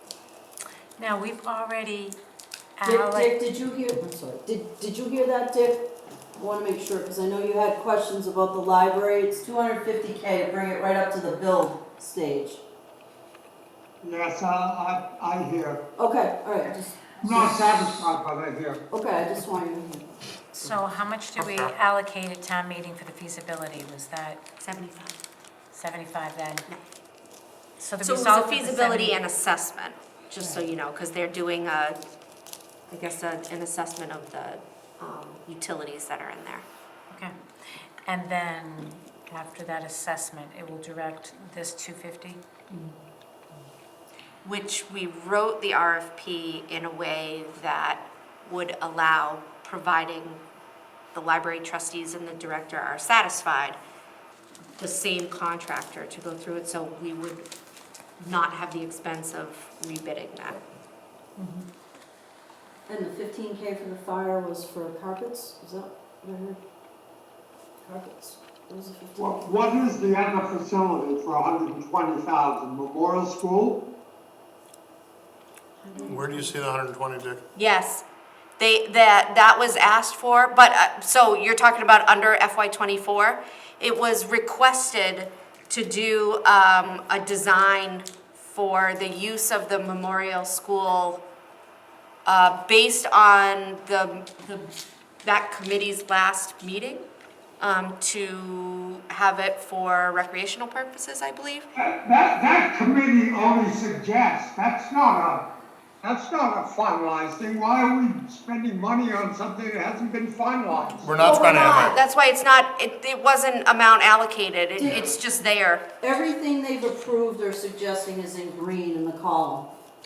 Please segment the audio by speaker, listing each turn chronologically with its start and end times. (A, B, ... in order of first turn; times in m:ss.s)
0:01.0-0:02.2 A
0:02.8-0:03.3 A
0:02.8-0:12.6 B
0:14.0-0:15.8 C
0:16.0-0:18.0 B
0:17.2-0:18.8 C
0:18.9-0:20.8 B
0:20.5-0:24.5 A
0:21.4-0:21.7 D
0:24.6-0:25.2 E
0:25.7-0:26.7 A
0:27.8-0:29.2 A
0:28.0-0:32.0 E
0:30.4-0:30.7 B
0:32.9-0:36.6 E
0:38.1-0:42.4 A
0:44.4-0:50.4 E
0:51.1-0:53.8 E
0:54.8-0:57.5 E
0:58.2-1:00.6 E
1:01.4-1:01.6 A
1:02.9-1:06.6 B
1:07.8-1:09.5 B
1:09.2-1:13.8 C
1:15.8-1:16.6 A
1:16.0-1:17.4 D
1:17.6-1:18.0 E
1:18.6-1:31.2 E
1:32.2-1:34.7 E
1:35.2-1:37.1 E
1:37.6-1:41.7 E
1:41.8-1:45.5 C
1:46.0-1:51.4 C
1:51.0-1:52.0 D
1:51.2-1:55.8 E
1:54.8-1:55.1 B
1:56.0-1:59.7 B